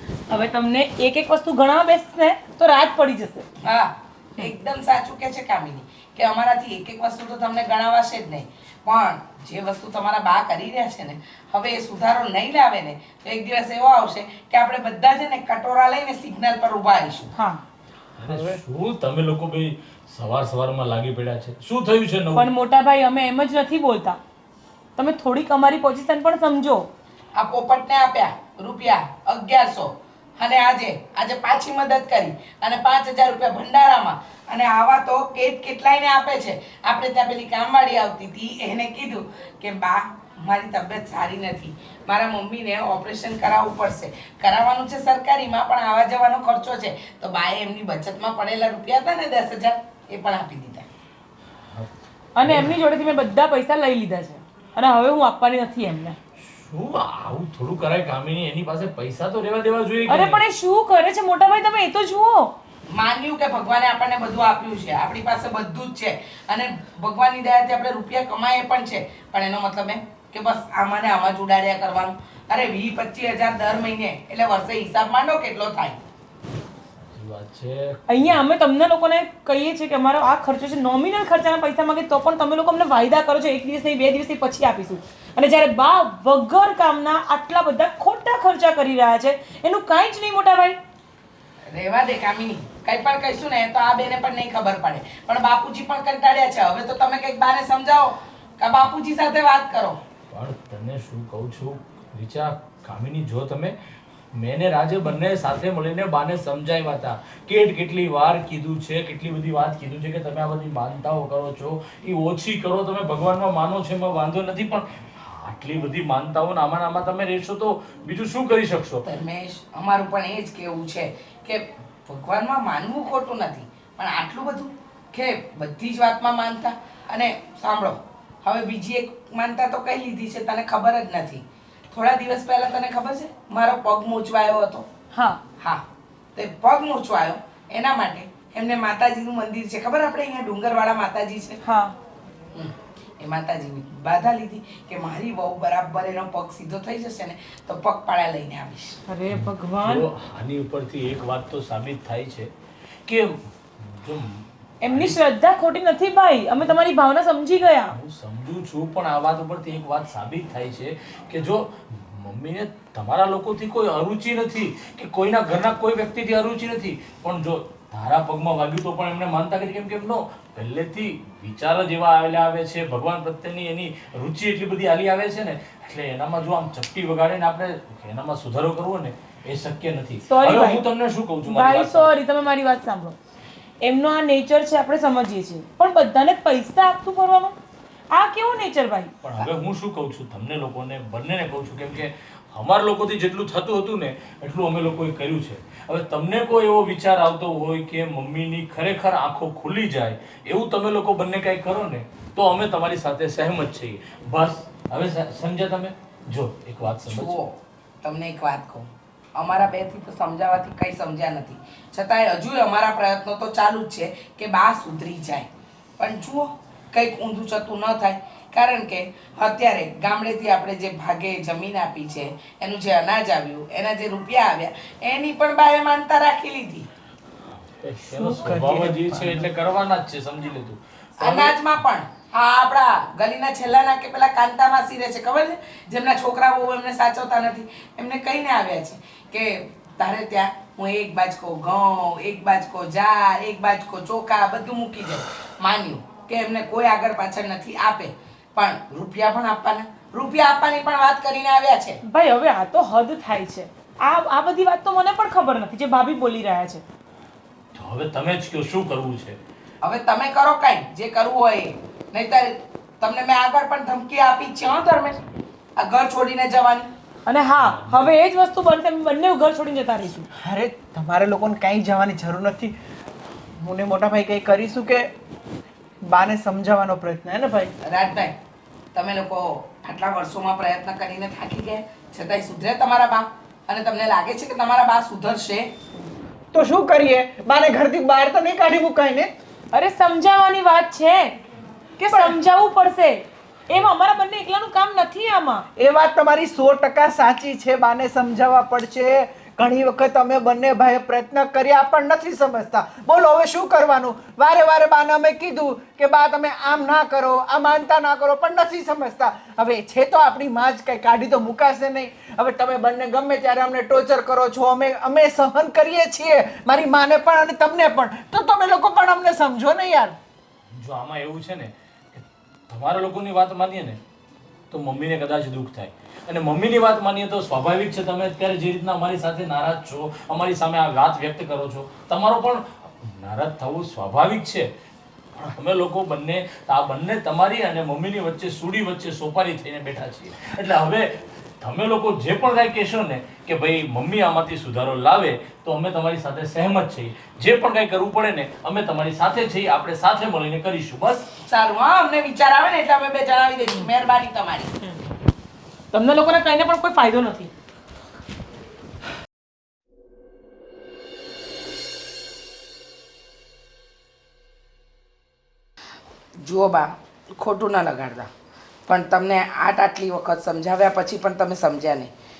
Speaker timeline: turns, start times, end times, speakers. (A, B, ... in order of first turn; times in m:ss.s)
0:00.3-0:03.5 A
0:03.6-0:17.3 B
0:17.4-0:17.6 A
0:18.2-0:22.5 C
0:18.2-0:18.6 D
0:22.3-0:24.2 A
0:25.0-0:26.9 A
0:27.4-0:50.8 B
0:52.4-0:56.2 A
0:52.4-0:52.7 C
0:56.4-1:00.4 C
1:00.1-1:02.5 A
1:02.9-1:16.0 B
1:17.1-1:18.4 C
1:18.1-1:30.8 A
1:31.7-1:40.0 B
1:40.3-1:43.7 C
1:44.3-1:59.0 C
1:59.0-2:14.9 B
2:15.1-2:15.4 A
2:16.3-2:21.6 B
2:21.6-2:21.9 A
2:22.5-2:29.0 B
2:29.1-2:30.0 A
2:29.3-2:32.5 C
2:33.0-2:35.2 C
2:34.8-2:37.9 A
2:37.9-3:02.1 C
3:00.3-3:00.8 A
3:01.4-3:03.2 A
3:03.8-3:07.5 A
3:08.1-3:09.1 A
3:09.2-3:27.4 C
3:27.0-3:46.9 B
3:47.8-3:51.5 C
3:48.0-3:49.5 D
3:51.2-4:12.0 B
4:12.0-4:16.8 A
4:17.7-4:19.4 C
4:19.8-4:25.2 B
4:25.8-4:26.9 B
4:27.2-4:30.2 A
4:27.6-4:28.1 C
4:30.4-4:32.7 D
4:33.6-4:35.1 D
4:36.0-4:37.7 D
4:37.8-4:38.4 B
4:38.9-4:45.7 B
4:46.5-4:49.3 D
4:49.7-4:51.4 A
4:52.0-4:55.7 A
4:52.1-4:52.3 D
4:55.8-5:20.2 D
5:20.8-5:24.0 C
5:24.7-5:34.7 C
5:35.3-5:51.3 C
5:51.4-5:54.7 B
5:55.9-5:57.5 A
6:06.4-6:08.3 B
6:08.9-6:12.1 B